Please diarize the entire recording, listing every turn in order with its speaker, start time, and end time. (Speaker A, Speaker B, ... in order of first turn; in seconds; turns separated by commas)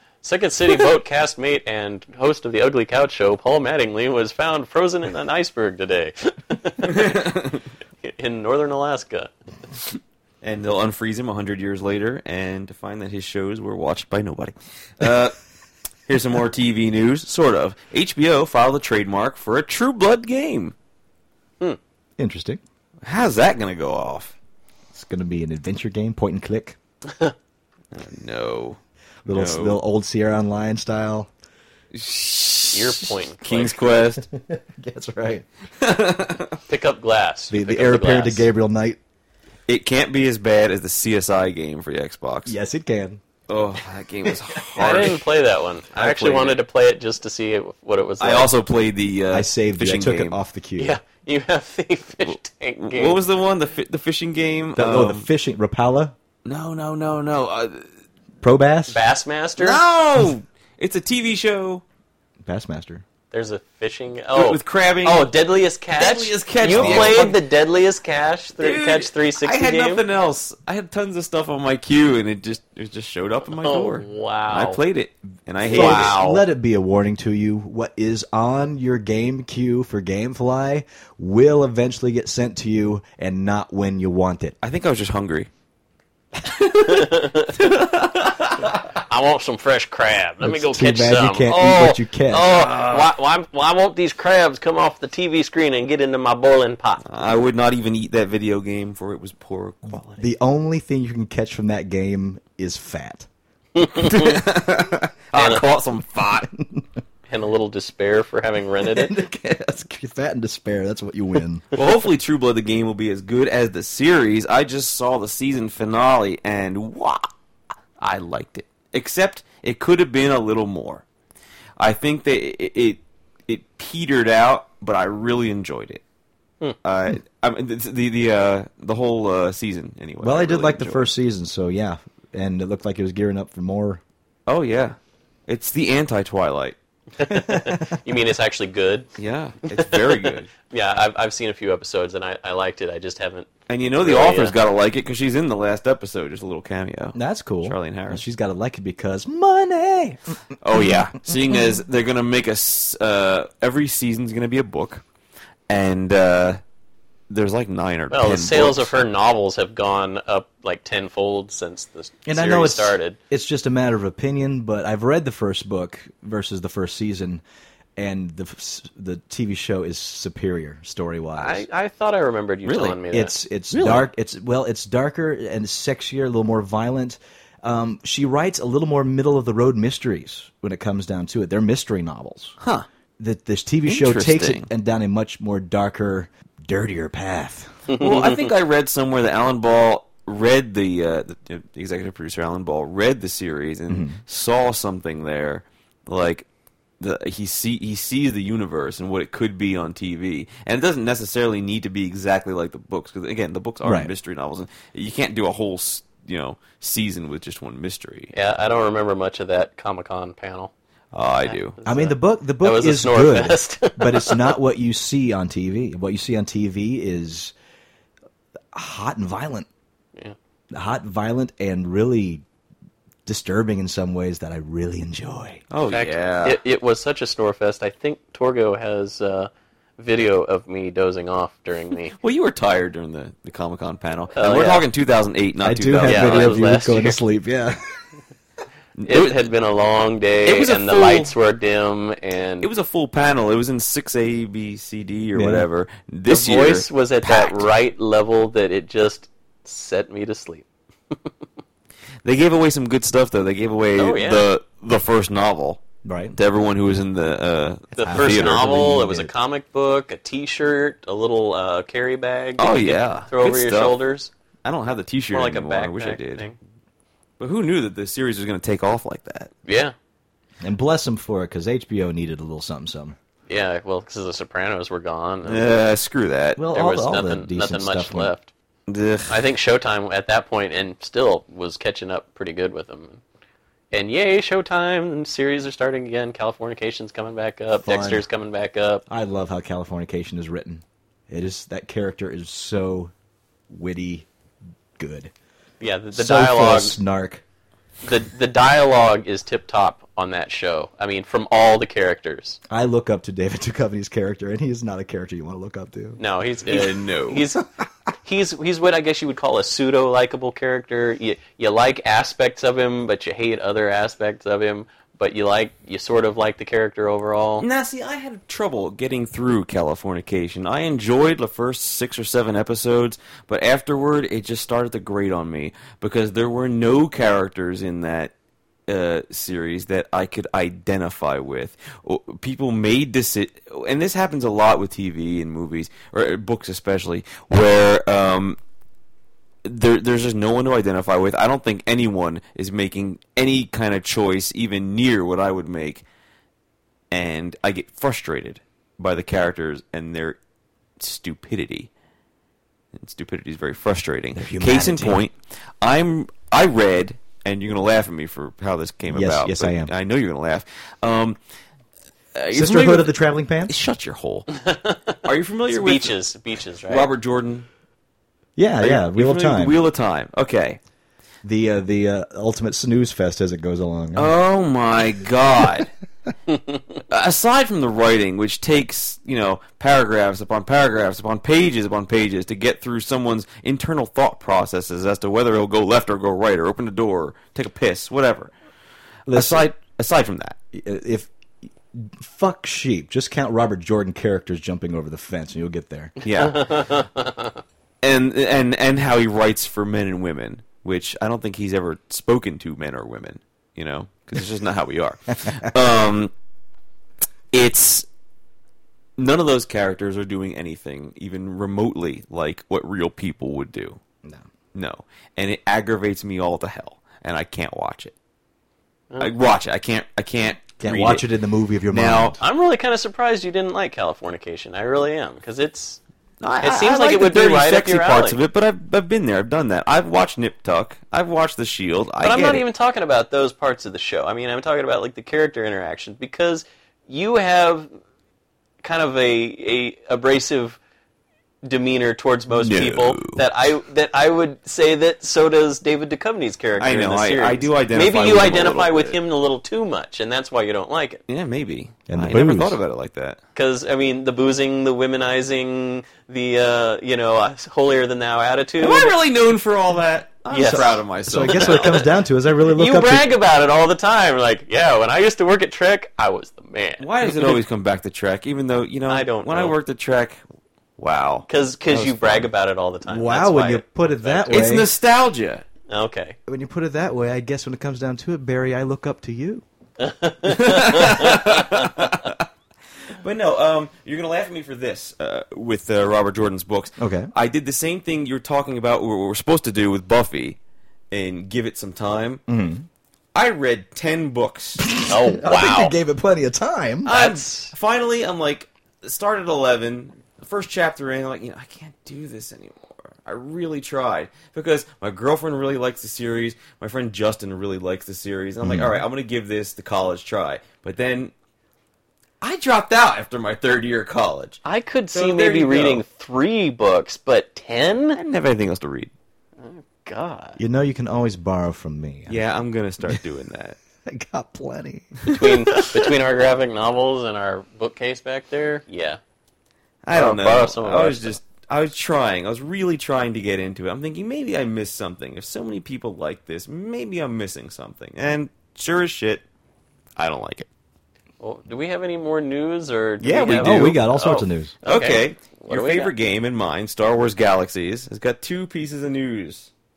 Speaker A: 0.2-7.2, Speaker B: 6.8-7.6, Speaker A: 8.0-9.3, Speaker B: 10.4-15.4, Speaker B: 16.1-20.7, Speaker C: 22.2-22.6, Speaker B: 23.0-24.3, Speaker C: 24.9-26.8, Speaker A: 27.1-27.3, Speaker B: 27.9-28.8, Speaker C: 29.2-31.3, Speaker B: 29.3-29.8, Speaker B: 31.9-34.3, Speaker A: 32.7-34.1, Speaker C: 34.3-35.5, Speaker B: 35.8-36.6, Speaker A: 36.7-38.5, Speaker C: 37.5-39.0, Speaker B: 39.7-42.5, Speaker C: 42.5-43.2, Speaker B: 43.5-45.2, Speaker A: 44.8-48.5, Speaker B: 46.0-46.6, Speaker B: 48.2-50.4, Speaker C: 49.3-51.0, Speaker A: 50.8-53.2, Speaker B: 52.2-55.3, Speaker C: 54.8-56.1, Speaker B: 56.5-57.8, Speaker C: 58.4-59.0, Speaker A: 58.9-59.8, Speaker B: 59.6-61.8, Speaker C: 62.4-63.0, Speaker A: 63.3-70.0, Speaker B: 64.3-65.3, Speaker B: 65.9-67.4, Speaker C: 66.7-67.2, Speaker B: 68.6-76.4, Speaker A: 73.6-74.8, Speaker C: 75.6-84.6, Speaker A: 75.6-76.2, Speaker B: 84.6-85.5, Speaker B: 86.4-88.8, Speaker A: 86.8-87.5, Speaker A: 89.1-91.6, Speaker C: 90.4-92.5, Speaker B: 91.5-93.1, Speaker A: 92.3-97.0, Speaker B: 97.0-100.3, Speaker C: 100.2-103.3, Speaker A: 103.8-104.4, Speaker B: 103.9-106.5, Speaker A: 105.3-105.6, Speaker A: 107.3-109.1, Speaker C: 108.8-111.6, Speaker B: 111.7-117.3, Speaker B: 118.0-121.0, Speaker B: 121.8-126.0, Speaker B: 126.8-131.1, Speaker C: 130.2-134.0, Speaker B: 134.5-136.8, Speaker A: 137.2-139.1, Speaker B: 139.2-140.5, Speaker A: 139.6-140.0, Speaker A: 140.6-143.5, Speaker B: 143.7-148.2, Speaker A: 144.0-144.6, Speaker C: 147.1-150.4, Speaker B: 150.6-155.0, Speaker B: 155.7-156.6, Speaker B: 157.3-158.9, Speaker A: 158.1-163.2, Speaker C: 162.3-167.4, Speaker C: 168.0-171.6, Speaker A: 171.4-173.3, Speaker B: 172.7-173.0, Speaker C: 173.1-182.6, Speaker B: 173.7-174.1, Speaker B: 182.6-182.9, Speaker C: 183.2-187.8, Speaker B: 183.9-184.7, Speaker A: 187.9-188.5, Speaker B: 187.9-196.4, Speaker C: 193.9-194.2, Speaker B: 197.0-208.3, Speaker C: 203.8-204.1, Speaker A: 208.3-210.7, Speaker B: 211.1-211.8, Speaker A: 211.4-214.6, Speaker C: 211.8-217.5, Speaker C: 218.7-219.7, Speaker C: 220.7-222.4, Speaker C: 223.3-225.6, Speaker B: 225.7-226.6, Speaker A: 225.9-232.1, Speaker B: 232.2-236.6, Speaker A: 234.4-234.8, Speaker C: 235.6-238.0, Speaker A: 236.0-237.2, Speaker B: 239.0-239.5, Speaker A: 239.1-242.7, Speaker B: 240.4-241.3, Speaker B: 242.6-247.7, Speaker C: 245.3-245.7, Speaker A: 246.3-251.3, Speaker B: 252.2-255.8, Speaker A: 254.0-254.5, Speaker C: 256.1-256.4, Speaker B: 256.3-258.7, Speaker A: 257.9-264.3, Speaker C: 258.1-259.3, Speaker B: 262.6-264.0, Speaker B: 264.6-266.5, Speaker A: 265.3-266.6, Speaker B: 267.4-269.5, Speaker A: 269.7-269.9, Speaker C: 270.6-273.2, Speaker A: 273.5-275.8, Speaker B: 275.4-276.6, Speaker C: 276.6-278.3, Speaker A: 276.7-278.5, Speaker B: 278.9-279.4, Speaker A: 279.3-283.2, Speaker A: 283.9-289.0, Speaker C: 287.8-288.2, Speaker C: 289.1-293.1, Speaker C: 293.7-294.3, Speaker C: 295.0-295.3, Speaker A: 295.8-297.0, Speaker C: 296.1-297.4, Speaker A: 298.1-302.6, Speaker C: 302.7-306.2, Speaker A: 306.2-307.6, Speaker B: 306.6-307.4, Speaker A: 308.2-317.7, Speaker B: 317.6-328.3, Speaker B: 328.9-338.6, Speaker B: 339.6-346.0, Speaker B: 347.1-350.4, Speaker B: 351.0-351.9, Speaker B: 352.9-361.4, Speaker C: 354.4-355.2, Speaker C: 359.1-359.9, Speaker B: 362.3-363.1, Speaker C: 362.5-363.7, Speaker B: 363.7-364.5, Speaker A: 364.6-365.2, Speaker B: 365.2-366.2, Speaker A: 365.7-367.1, Speaker B: 366.9-367.7, Speaker C: 368.6-369.8, Speaker B: 368.8-370.8, Speaker C: 371.4-374.3, Speaker B: 374.2-375.9, Speaker B: 377.1-388.5, Speaker C: 389.3-389.7, Speaker B: 389.3-390.6, Speaker C: 390.7-391.3, Speaker C: 391.9-396.1, Speaker B: 396.2-397.1, Speaker A: 396.4-397.5, Speaker B: 398.0-406.3, Speaker B: 407.5-408.1, Speaker B: 409.2-414.0, Speaker B: 414.7-418.1, Speaker B: 419.2-421.3, Speaker C: 420.8-422.4, Speaker B: 421.9-422.4, Speaker A: 422.4-426.0, Speaker B: 426.4-432.6, Speaker A: 426.6-428.4, Speaker A: 432.2-437.9, Speaker A: 438.8-440.8, Speaker A: 441.6-451.2, Speaker B: 442.6-443.4, Speaker B: 446.8-449.2, Speaker B: 451.3-453.4, Speaker C: 452.1-452.8, Speaker A: 453.6-459.1, Speaker B: 458.8-462.0, Speaker A: 460.5-462.1, Speaker C: 460.6-463.3, Speaker A: 462.7-467.5, Speaker B: 467.0-470.4, Speaker A: 469.1-469.7, Speaker B: 471.0-471.5, Speaker A: 471.5-474.7, Speaker C: 473.1-474.9, Speaker B: 474.5-475.6, Speaker A: 475.9-476.4, Speaker C: 476.5-479.6, Speaker A: 480.0-481.8, Speaker B: 480.4-482.4, Speaker B: 483.2-490.6, Speaker C: 487.0-487.3, Speaker B: 491.1-492.4, Speaker C: 492.5-492.9, Speaker B: 493.3-494.8, Speaker C: 494.8-497.1, Speaker A: 495.1-495.9, Speaker B: 497.1-511.3, Speaker A: 497.1-497.7, Speaker C: 508.6-509.0, Speaker B: 512.4-514.6, Speaker A: 514.6-518.2, Speaker B: 515.1-516.0, Speaker B: 518.1-519.1, Speaker A: 519.6-520.6, Speaker C: 520.6-522.4, Speaker B: 522.3-523.8, Speaker C: 524.0-525.4, Speaker B: 525.2-525.9, Speaker A: 525.3-529.2, Speaker B: 530.0-539.4, Speaker A: 530.1-531.4, Speaker B: 540.2-540.7, Speaker A: 541.4-546.1, Speaker C: 543.2-544.7, Speaker B: 543.5-544.0, Speaker B: 544.8-549.7